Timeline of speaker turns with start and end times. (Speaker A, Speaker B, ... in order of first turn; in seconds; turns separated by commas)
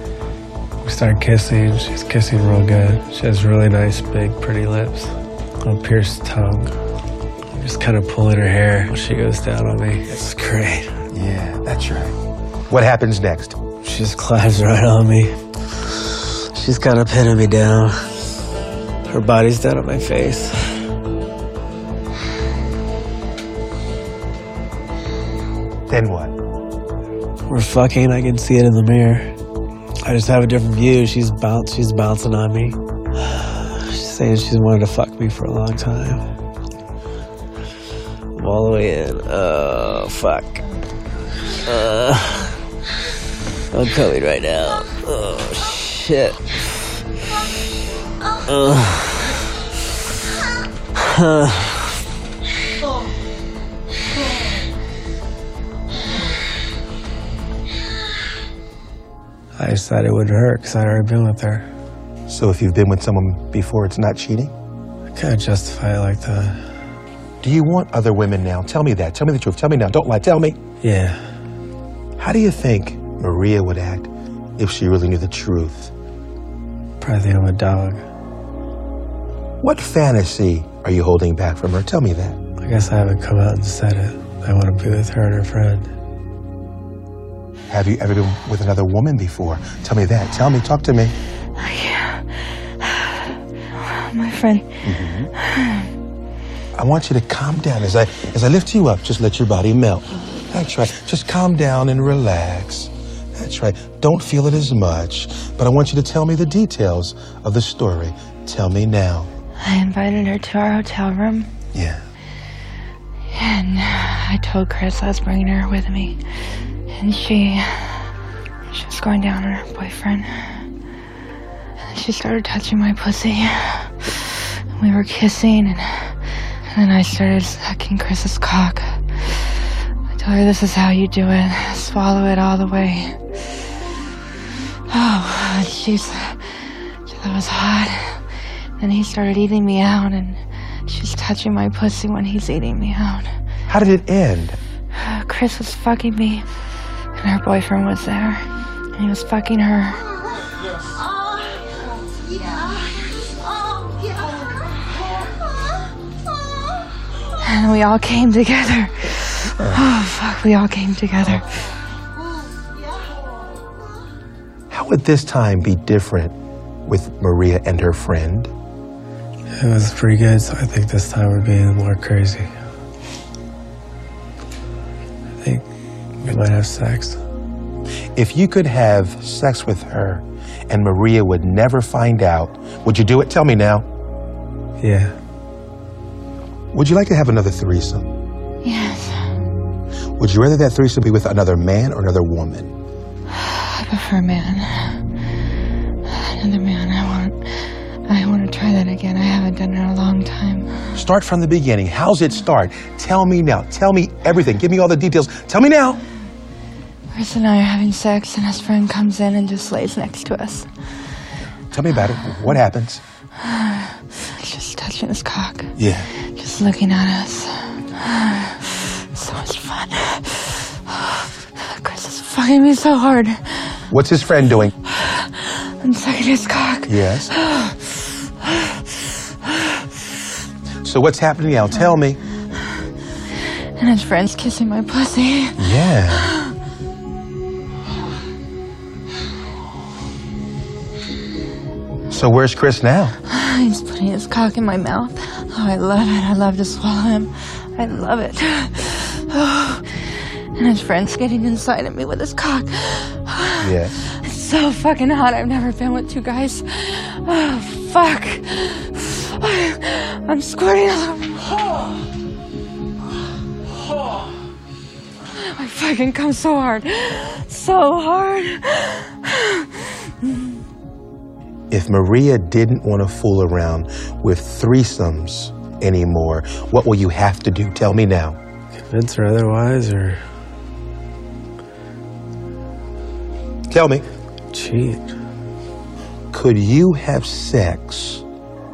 Speaker A: 0.8-6.7, Speaker A: 7.5-11.0, Speaker B: 11.1-13.6, Speaker A: 13.8-15.3, Speaker A: 15.9-18.0, Speaker A: 19.1-20.7, Speaker B: 25.9-26.4, Speaker A: 27.5-29.3, Speaker A: 30.0-36.2, Speaker A: 38.4-40.6, Speaker A: 41.6-42.5, Speaker A: 43.7-46.4, Speaker A: 48.5-49.4, Speaker A: 51.0-52.0, Speaker A: 59.5-61.7, Speaker B: 62.3-64.5, Speaker A: 65.1-66.6, Speaker B: 67.4-70.6, Speaker A: 70.8-71.2, Speaker B: 72.2-75.9, Speaker A: 77.0-78.0, Speaker B: 79.6-82.4, Speaker A: 82.6-85.9, Speaker B: 87.7-91.1, Speaker C: 91.6-93.2, Speaker C: 93.7-94.8, Speaker B: 94.8-95.3, Speaker C: 95.4-95.9, Speaker B: 96.7-109.3, Speaker C: 109.6-111.5, Speaker B: 111.7-112.0, Speaker C: 113.3-116.2, Speaker C: 116.9-118.1, Speaker C: 118.7-120.6, Speaker C: 121.8-126.2, Speaker C: 126.7-129.0, Speaker C: 130.1-133.2, Speaker C: 134.9-138.2, Speaker C: 138.8-143.3, Speaker B: 143.7-144.6, Speaker C: 144.9-146.4, Speaker C: 147.2-150.0, Speaker C: 157.4-161.4, Speaker B: 159.6-159.8, Speaker B: 164.7-168.5, Speaker A: 169.5-172.5, Speaker A: 176.2-177.2, Speaker B: 178.1-183.8, Speaker A: 184.8-185.1, Speaker B: 186.7-188.1, Speaker C: 188.6-189.3, Speaker B: 190.2-192.7, Speaker C: 193.3-195.0, Speaker C: 196.1-200.8, Speaker B: 200.9-206.0, Speaker C: 207.1-210.7, Speaker B: 211.7-213.0, Speaker C: 213.4-215.7, Speaker B: 215.8-216.1, Speaker C: 216.3-223.8, Speaker B: 223.9-224.7, Speaker C: 224.9-228.8, Speaker B: 226.9-227.3, Speaker B: 230.8-232.2, Speaker C: 233.8-236.5, Speaker B: 235.6-236.3, Speaker B: 242.1-243.2, Speaker C: 243.3-249.8, Speaker C: 250.6-261.6, Speaker B: 253.6-253.9, Speaker C: 265.3-270.6, Speaker B: 271.7-278.4, Speaker A: 278.9-280.2, Speaker B: 283.7-284.0, Speaker A: 284.5-285.1, Speaker B: 286.3-288.2